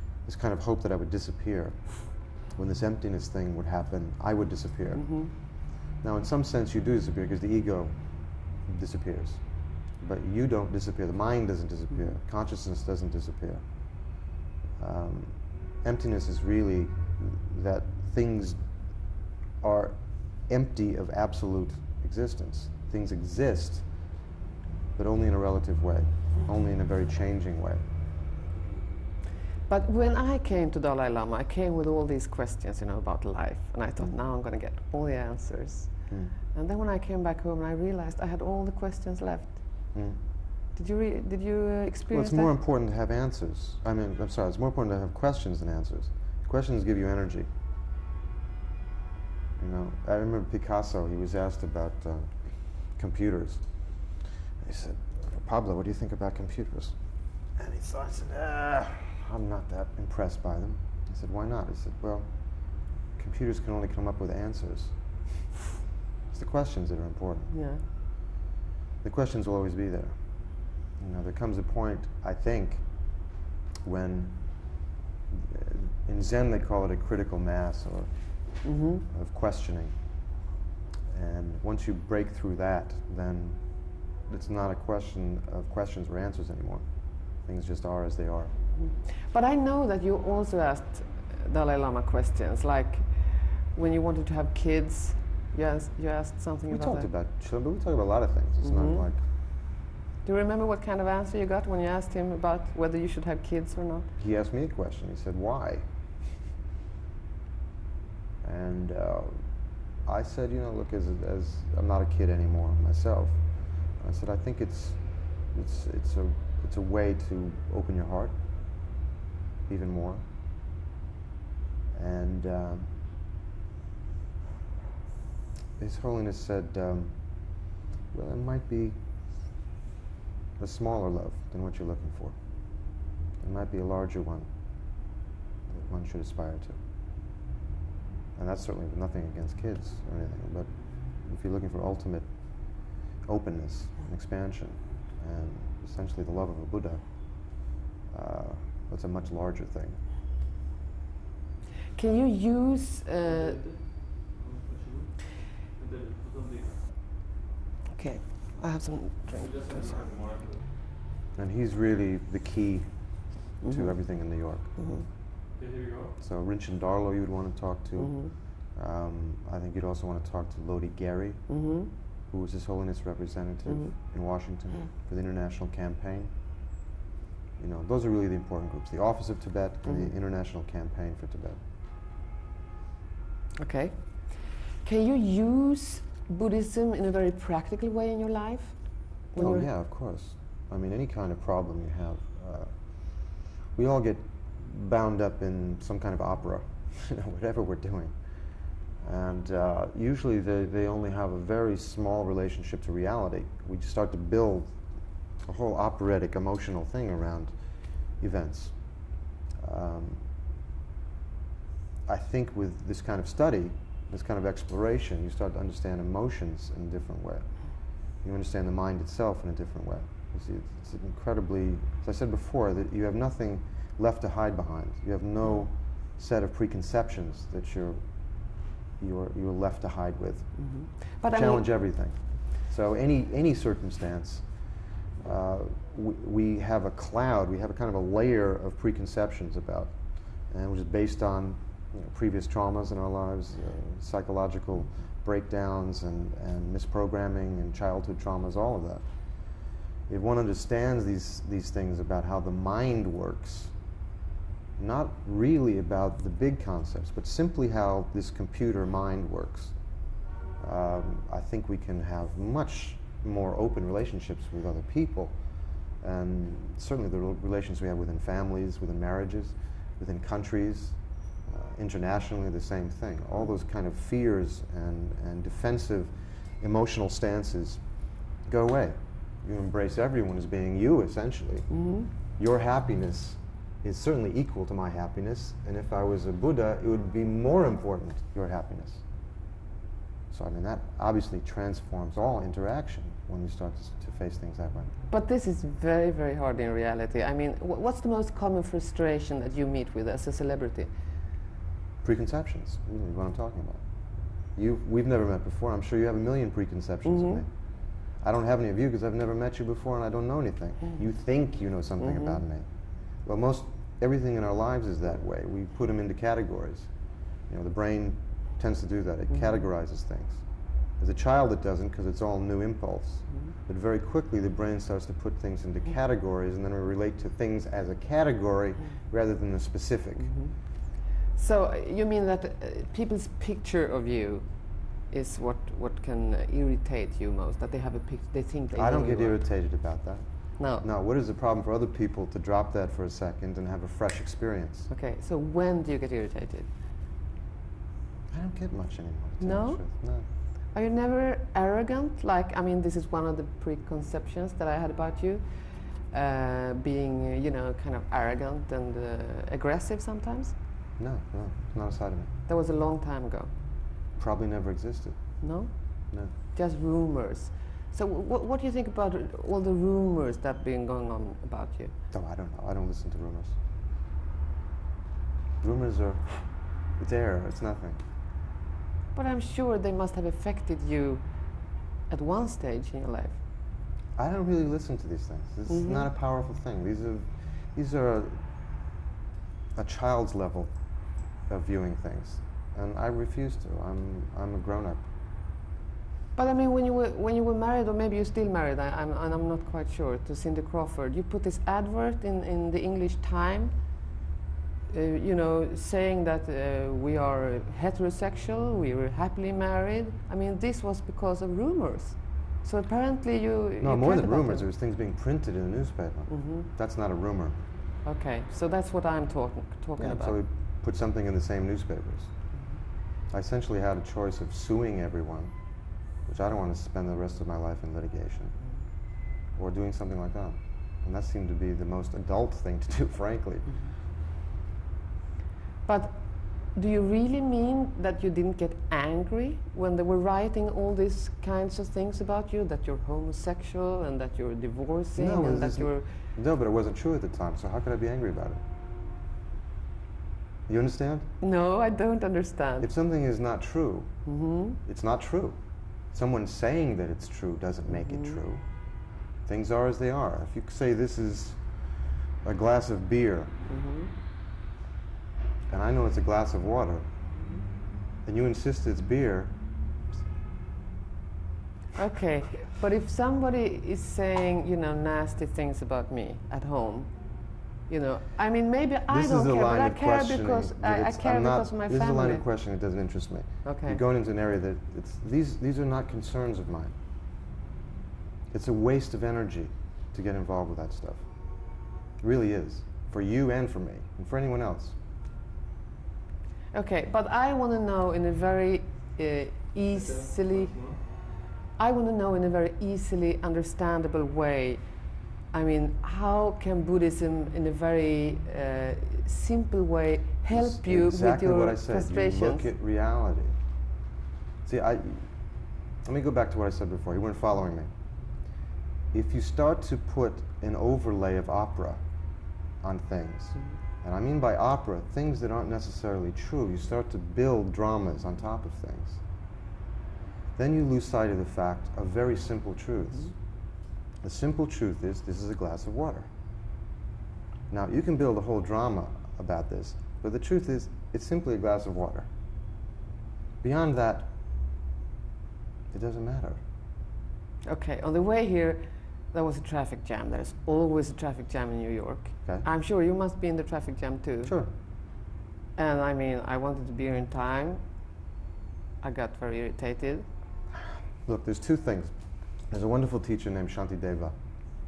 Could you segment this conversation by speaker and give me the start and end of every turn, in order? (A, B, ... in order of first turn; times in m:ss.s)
0:00.2-0:14.2 A
0:05.0-0:05.3 B
0:14.8-0:18.6 A
0:19.6-0:23.9 A
0:25.0-0:27.8 A
0:29.7-0:39.9 B
0:36.1-0:36.4 A
0:39.9-0:40.2 A
0:40.7-0:42.5 B
0:42.1-0:47.5 A
0:49.6-1:05.5 A
1:06.3-1:07.5 A
1:07.5-1:07.8 B
1:09.0-1:13.3 A
1:13.8-1:20.0 A
1:18.6-1:19.0 B
1:21.1-1:28.5 A
1:28.8-1:37.1 B
1:36.7-1:39.3 A
1:38.6-1:39.0 B
1:40.2-1:44.1 B
1:44.2-1:45.9 A
1:48.4-1:58.4 A
1:59.7-2:00.2 A
2:01.9-2:02.9 A
2:05.8-2:09.0 A
2:10.6-2:14.5 A
2:15.7-2:16.8 A
2:18.4-2:30.0 A
2:31.9-2:33.6 B
2:33.2-2:36.8 C
2:37.9-2:39.9 B
2:39.3-2:40.6 C
2:41.4-2:44.8 A
2:43.6-2:45.1 B
2:45.6-2:46.1 C
2:46.2-2:51.6 A
2:48.0-2:48.3 B
2:51.5-2:51.9 B
2:52.3-2:56.3 A
2:53.7-2:54.0 B
2:57.6-3:01.6 A
2:59.8-3:00.1 B
3:03.6-3:09.7 B
3:09.4-3:18.2 A
3:18.9-3:24.8 A
3:25.4-3:30.2 A
3:32.1-4:09.1 A
3:50.6-3:51.7 B
4:10.1-4:13.7 A
4:14.8-4:19.8 A
4:20.6-4:41.7 A
4:41.7-4:42.1 B
4:42.3-4:49.0 A
4:50.3-4:54.9 A
4:55.1-5:00.9 B
5:02.0-5:03.8 A
5:04.6-5:16.9 A
5:07.1-5:07.4 B
5:17.5-5:30.3 A
5:30.2-5:39.4 B
5:38.8-5:44.9 A
5:40.6-5:40.8 B
5:44.9-5:46.7 B
5:48.3-5:50.3 A
5:49.4-5:49.9 B
5:50.7-6:00.6 B
6:01.0-6:02.3 A
6:02.5-6:03.5 B
6:04.2-6:05.4 A
6:05.4-6:11.9 B
6:12.1-6:13.6 A
6:15.6-6:18.0 A
6:19.1-6:21.2 B
6:22.1-6:23.4 B
6:24.2-6:28.4 A
6:25.7-6:26.1 B
6:29.8-6:30.7 A
6:31.5-6:35.1 A
6:36.4-6:43.8 B
6:44.9-6:54.7 B
6:53.8-6:57.7 A
6:56.3-6:56.7 B
6:58.0-7:00.4 B
7:00.0-7:02.3 A
7:03.3-7:05.6 A
7:06.2-7:08.6 A
7:09.5-7:13.8 A
7:15.8-7:26.1 B
7:25.2-7:28.6 A
7:30.7-7:31.3 A
7:31.4-7:32.9 B
7:32.8-7:34.2 A
7:34.3-7:34.8 B
7:34.8-7:38.6 A
7:37.9-7:38.4 B
7:39.4-7:41.7 A
7:42.4-7:43.5 A
7:43.7-7:44.1 B
7:45.7-7:47.1 A
7:48.2-7:49.6 A
7:52.0-8:02.4 B
7:59.1-8:06.9 A
8:03.6-8:04.0 B
8:08.5-8:11.3 A
8:12.2-8:15.0 A
8:16.7-8:20.8 B
8:19.9-8:21.0 C
8:21.8-8:32.7 B
8:30.5-8:33.6 A
8:34.6-8:35.3 A
8:36.0-8:37.9 A
8:39.1-8:42.0 A
8:42.8-8:49.2 A
8:50.6-8:53.4 A
8:54.2-8:56.3 A
8:57.7-9:02.3 A
9:03.6-9:04.3 A
9:05.9-9:06.6 A
9:07.7-9:14.6 B
9:14.4-9:14.7 A
9:15.8-9:17.8 B
9:19.0-9:20.3 B
9:20.7-9:22.1 A
9:22.7-9:24.4 A